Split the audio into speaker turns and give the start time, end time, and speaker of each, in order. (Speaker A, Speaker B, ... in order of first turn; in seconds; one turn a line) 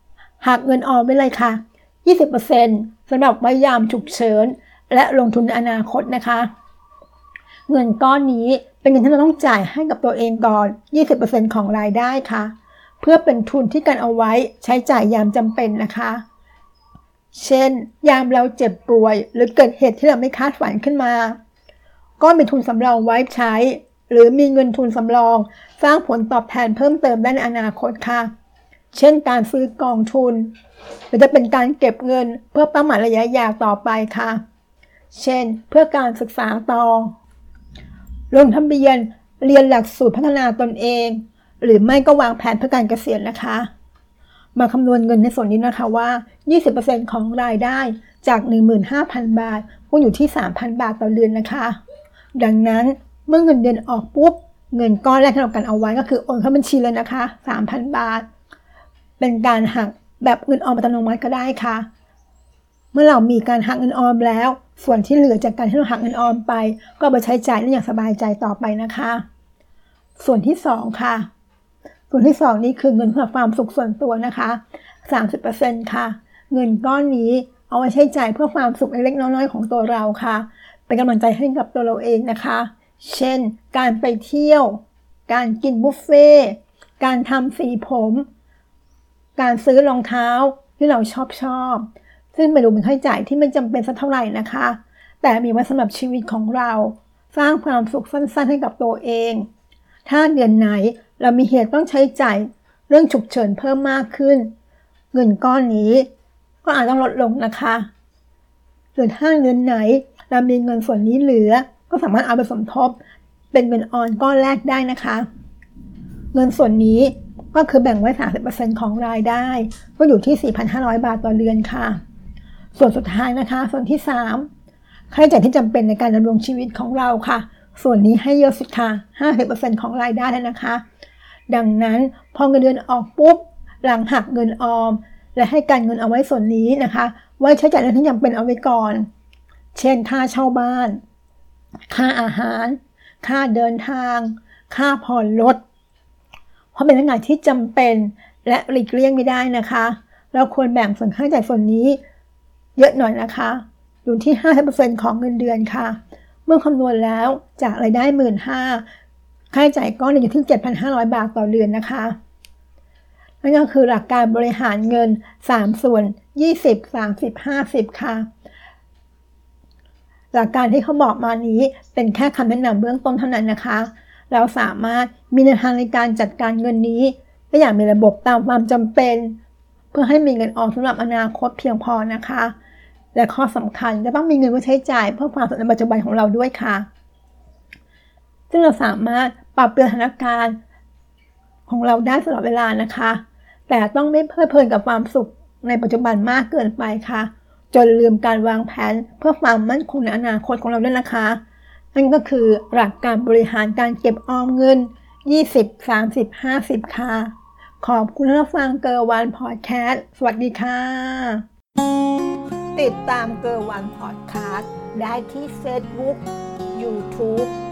Speaker A: 0.4-6.5
Speaker A: 7.7-16.2
Speaker A: 17.3-21.4
Speaker A: 22.2-28.3
Speaker A: 28.9-30.5
Speaker A: 31.1-34.4
Speaker A: 35.1-37.1
Speaker A: 38.3-43.7
Speaker A: 44.5-51.8
Speaker A: 52.4-58.2
Speaker A: 59.2-61.9
Speaker A: 62.9-69.2
Speaker A: 70.2-71.3
Speaker A: 72.1-88.3
Speaker A: 89.4-99.5
Speaker A: 100.1-104.5
Speaker A: 105.1-106.1
Speaker A: 106.6-107.9
Speaker A: 109.0-113.0
Speaker A: 113.5-115.3
Speaker A: 116.3-122.0
Speaker A: 122.8-124.5
Speaker A: 125.1-130.8
Speaker A: 131.5-139.1
Speaker A: 139.7-141.0
Speaker A: 141.9-145.6
Speaker A: 146.7-152.0
Speaker A: 152.8-158.8
Speaker A: 159.5-162.2
Speaker A: 163.4-168.3
Speaker A: 170.3-179.4
Speaker A: 179.9-182.6
Speaker A: 183.1-186.9
Speaker A: 188.5-190.6
Speaker A: 191.7-201.4
Speaker A: 201.9-211.4
Speaker A: 212.8-217.5